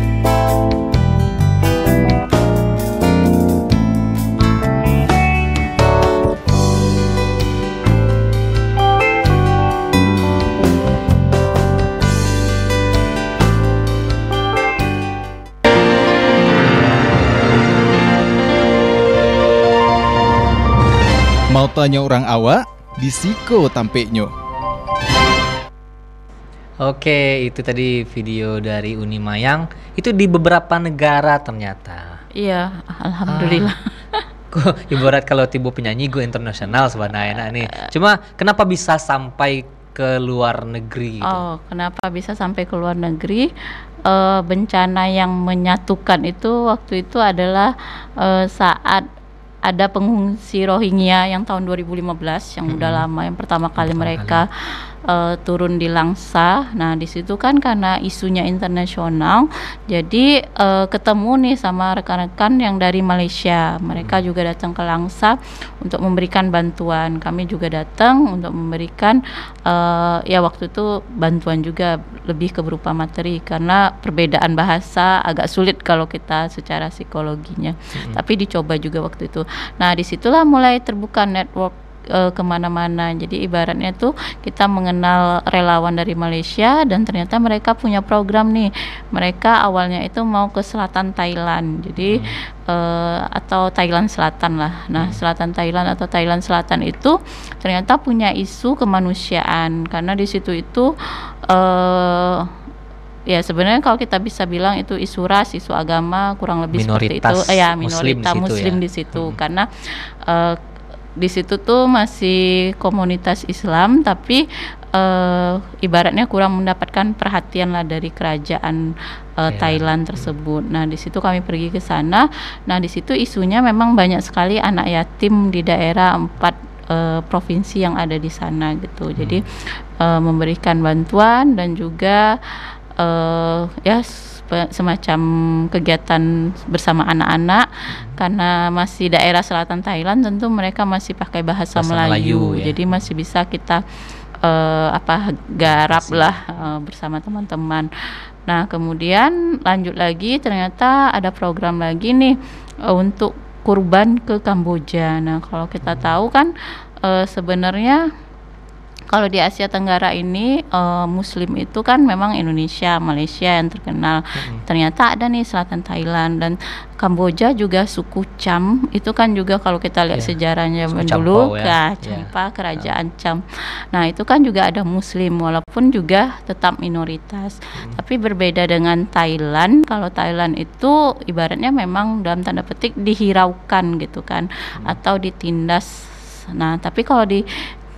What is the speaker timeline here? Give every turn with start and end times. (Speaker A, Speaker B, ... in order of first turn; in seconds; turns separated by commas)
Speaker A: 21.5-24.3, Speaker B: 26.8-32.2, Speaker C: 32.4-34.2, Speaker B: 33.3-33.7, Speaker B: 34.5-41.5, Speaker C: 37.4-37.9, Speaker C: 41.2-43.5, Speaker C: 44.0-49.1, Speaker C: 49.6-100.9, Speaker B: 52.7-53.1, Speaker B: 53.8-54.4, Speaker B: 78.0-78.2, Speaker B: 92.1-92.4, Speaker B: 95.0-95.2, Speaker C: 101.5-102.5, Speaker C: 103.3-110.6, Speaker B: 106.7-109.4, Speaker C: 111.2-132.3, Speaker B: 119.5-120.3, Speaker B: 129.2-129.4, Speaker C: 133.0-143.8, Speaker B: 137.9-138.2, Speaker B: 141.8-143.0, Speaker C: 144.4-147.9, Speaker B: 145.6-146.7, Speaker C: 148.5-152.3, Speaker C: 152.9-156.5, Speaker B: 155.8-156.2, Speaker C: 157.0-158.0, Speaker C: 159.1-187.4, Speaker B: 164.4-164.6, Speaker B: 170.9-172.9